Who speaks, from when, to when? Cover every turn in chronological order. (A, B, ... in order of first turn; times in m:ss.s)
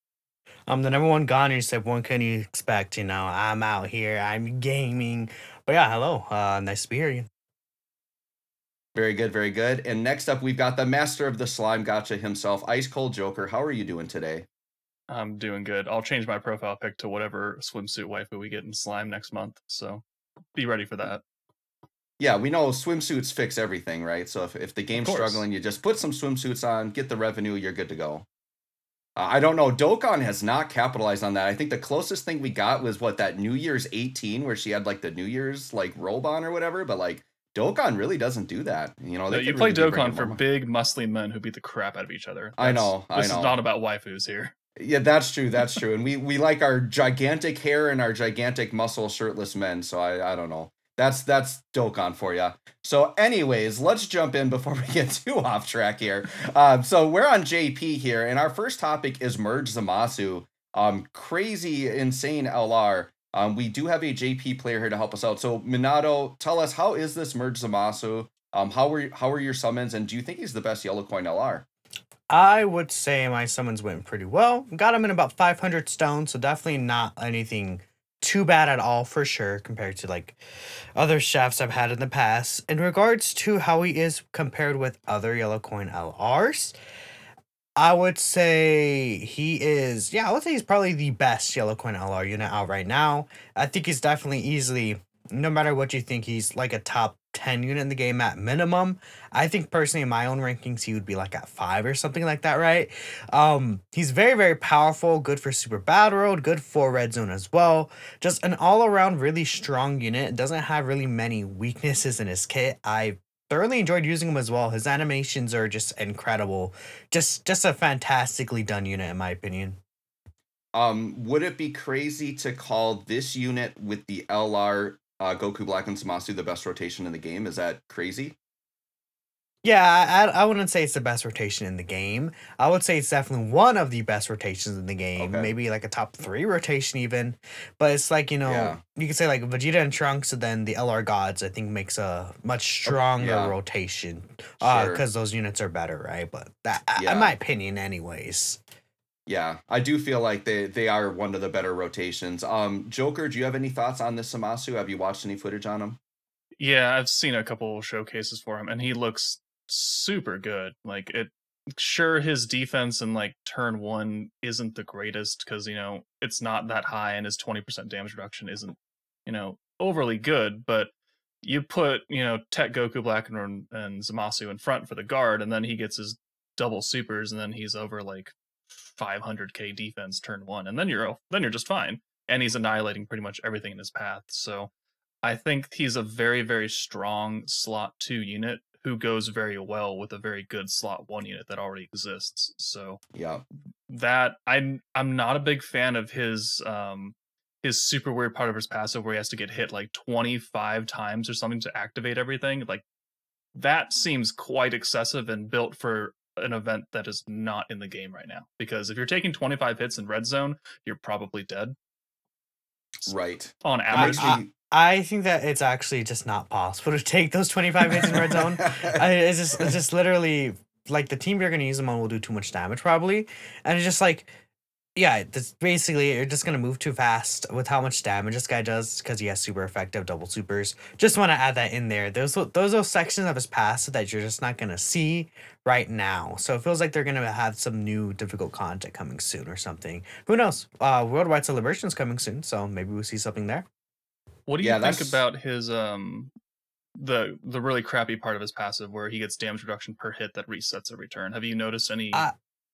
0:00.7-0:07.3 A
0:08.9-0:14.4 B
0:15.1-0:20.0 C
0:20.5-0:21.2 C
0:22.2-0:28.2 B
0:24.9-0:25.4 C
0:29.2-0:40.4 B
0:39.3-0:44.5 C
0:42.6-0:43.6 B
0:44.8-1:11.6 B
1:12.3-1:20.4 A
1:21.0-1:26.7 A
1:27.8-1:59.8 A
2:00.7-2:08.4 B
2:09.6-2:28.6 A
2:15.2-2:15.5 B
2:18.4-2:18.8 B
2:22.8-2:23.5 B
2:24.6-2:25.0 B
2:27.0-2:27.3 B
2:29.3-2:36.0 B
2:36.6-2:50.9 C
2:51.4-3:04.7 C
3:05.2-3:13.0 C
3:13.1-3:13.4 B
3:13.9-3:22.8 C
3:23.5-3:31.7 C
3:33.1-3:34.4 C
3:33.1-3:34.5 B
3:33.9-3:44.3 A
3:38.0-3:39.0 B
3:45.0-4:03.6 A
4:04.5-4:06.3 C
4:04.6-4:05.2 B
4:07.0-4:12.3 C